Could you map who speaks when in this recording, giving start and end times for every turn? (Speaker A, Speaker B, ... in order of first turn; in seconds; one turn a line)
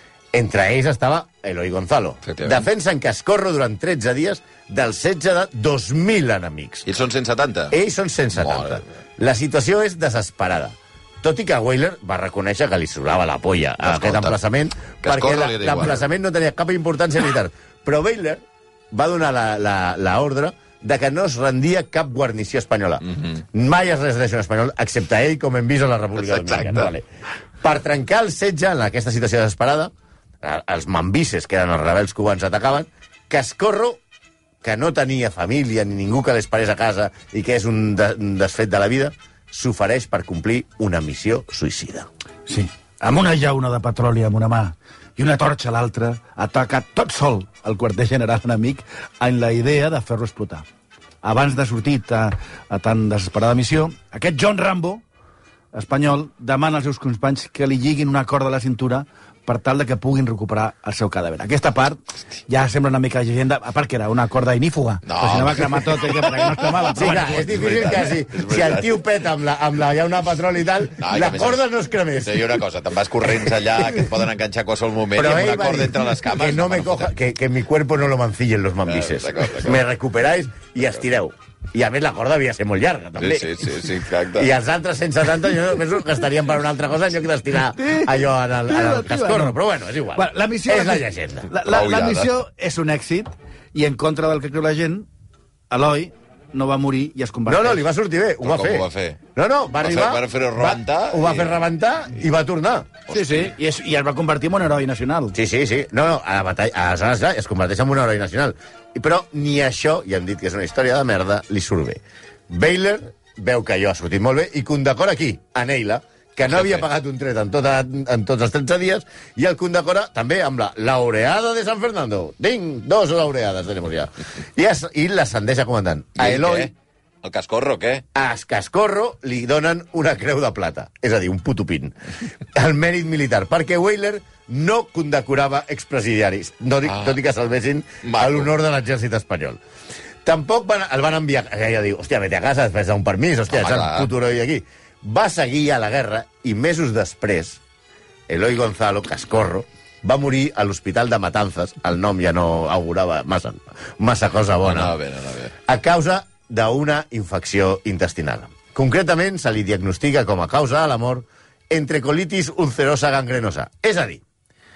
Speaker A: 0.3-6.9
Speaker B: 2.2-2.6
Speaker B: 6.8-7.7
Speaker A: 7.7-27.1
Speaker B: 8.3-8.8
Speaker B: 13.8-14.3
Speaker B: 15.0-16.0
Speaker B: 23.1-23.4
Speaker B: 26.3-26.9
Speaker A: 27.6-34.0
Speaker A: 34.6-42.1
Speaker C: 42.5-50.6
Speaker C: 51.2-55.0
Speaker C: 55.7-67.6
Speaker B: 65.0-69.0
Speaker A: 67.0-72.6
Speaker B: 71.0-71.6
Speaker B: 72.2-77.1
Speaker A: 75.1-83.7
Speaker B: 78.8-79.8
Speaker B: 83.2-84.5
Speaker A: 84.3-91.5
Speaker C: 87.7-89.6
Speaker C: 90.1-95.1
Speaker B: 91.6-92.3
Speaker C: 95.7-97.9
Speaker A: 97.5-102.9
Speaker B: 98.4-99.2
Speaker B: 99.8-101.6
Speaker B: 103.1-103.5
Speaker C: 103.1-105.3
Speaker A: 105.3-126.7
Speaker B: 116.5-116.8
Speaker B: 126.2-126.7
Speaker B: 127.2-128.0
Speaker A: 128.1-131.9
Speaker A: 132.5-139.6
Speaker B: 136.9-137.2
Speaker B: 138.0-138.5
Speaker A: 140.2-147.6
Speaker B: 143.5-144.1
Speaker A: 148.3-154.9
Speaker B: 154.6-155.5
Speaker A: 155.7-164.2